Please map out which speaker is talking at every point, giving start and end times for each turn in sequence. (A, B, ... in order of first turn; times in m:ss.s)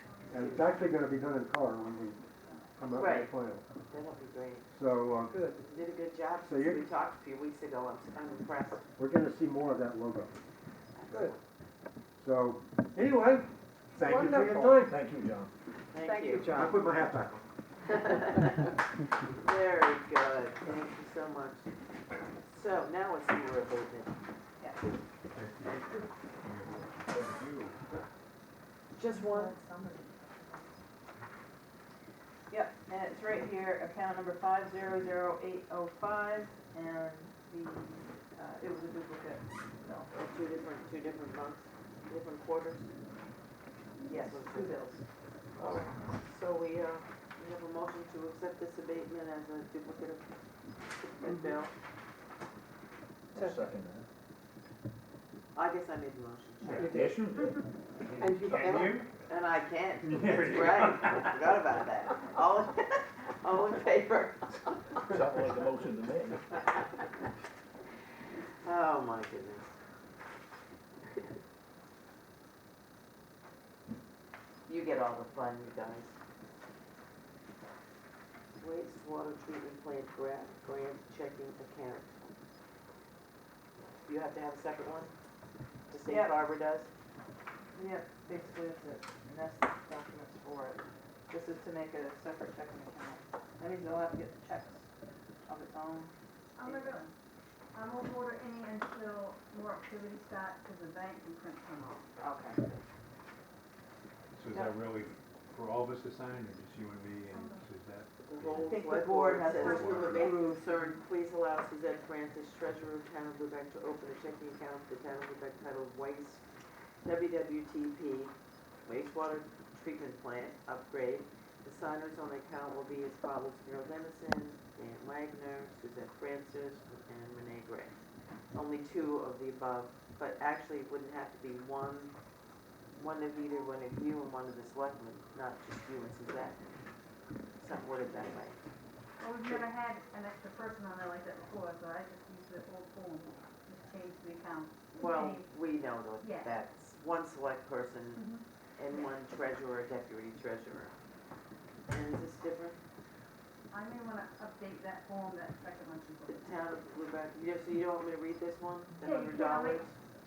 0:00.3-0:03.7 A
0:00.3-0:00.7 B
0:02.9-0:03.3 B
0:03.9-0:04.7 B
0:04.7-0:05.4 A
0:05.3-0:05.6 C
0:05.6-0:08.8 B
0:06.4-0:06.8 A
0:09.0-0:10.4 A
0:11.0-0:11.4 B
0:11.1-0:11.4 C
0:12.2-0:15.0 A
0:14.0-0:14.8 C
0:14.8-0:15.5 D
0:15.9-0:16.7 B
0:16.0-0:16.8 C
0:16.5-0:17.4 A
0:17.9-0:21.7 B
0:22.5-0:24.1 B
0:25.3-0:27.8 E
0:28.9-0:29.6 B
0:29.1-0:30.7 F
0:32.5-0:40.1 F
0:40.1-0:42.9 B
0:44.0-0:45.0 F
0:44.1-0:45.0 B
0:45.6-0:50.2 B
0:45.6-0:45.9 F
0:50.8-0:51.7 B
0:53.3-0:54.0 D
0:55.6-0:57.0 B
0:56.8-0:59.0 D
0:56.8-0:57.1 C
0:58.2-0:58.8 C
0:58.4-0:59.1 E
0:58.5-1:05.2 B
1:00.0-1:01.4 E
1:05.1-1:06.7 D
1:08.6-1:09.7 B
1:14.7-1:16.2 B
1:18.6-1:22.3 B
1:24.1-1:25.1 B
1:25.9-1:26.9 B
1:26.1-1:26.4 F
1:27.8-1:34.9 F
1:35.5-1:37.1 F
1:36.6-1:37.1 G
1:37.7-1:42.1 G
1:42.2-1:42.8 F
1:44.4-1:48.8 E
1:44.5-1:44.9 F
1:47.3-1:47.7 G
1:48.2-1:56.4 B
1:48.7-1:50.9 F
1:49.5-1:50.0 G
1:49.6-1:50.4 E
1:57.0-1:58.3 B
1:58.8-2:07.9 B
2:08.5-2:12.1 B
2:12.9-2:16.6 B
2:17.6-2:18.6 B
2:19.2-2:25.5 G
2:24.9-2:28.3 B
2:26.2-2:26.6 G
2:28.2-2:29.1 G
2:28.8-2:31.0 B
2:31.9-2:32.8 B
2:33.7-2:36.6 G
2:36.3-2:40.0 B
2:39.0-2:39.8 G